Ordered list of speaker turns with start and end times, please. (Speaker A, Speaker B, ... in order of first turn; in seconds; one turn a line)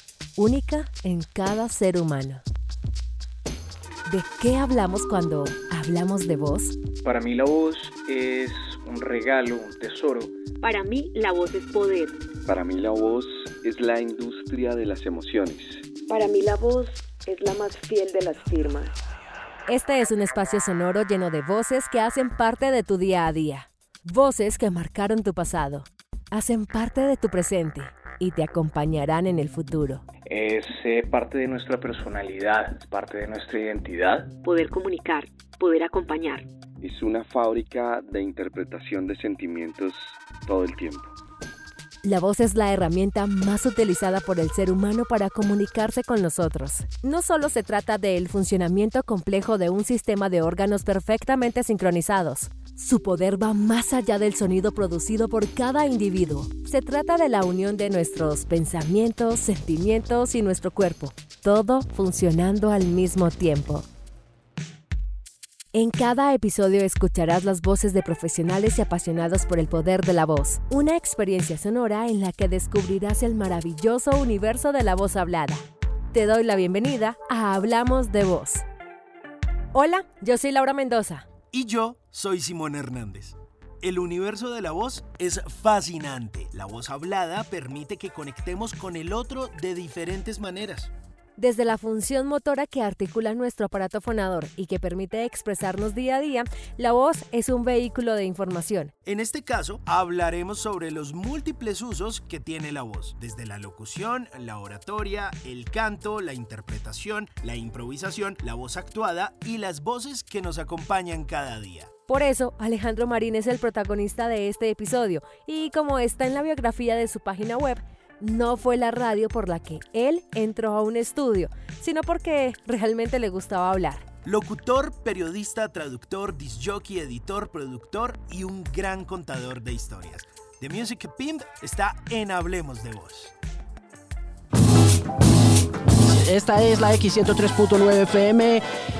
Speaker A: 0.4-2.4
Speaker A: 4.0-6.8
Speaker B: 7.0-10.4
Speaker C: 10.6-12.2
Speaker D: 12.4-15.8
Speaker E: 16.1-18.9
Speaker A: 19.7-30.0
Speaker B: 30.3-34.3
Speaker C: 34.4-36.5
Speaker D: 36.8-41.1
Speaker A: 42.0-63.9
Speaker A: 65.7-78.6
Speaker A: 79.7-81.2
Speaker F: 81.5-90.9
Speaker A: 91.4-98.9
Speaker F: 99.0-111.9
Speaker A: 112.1-124.0
Speaker F: 124.2-133.3
Speaker G: 136.0-138.6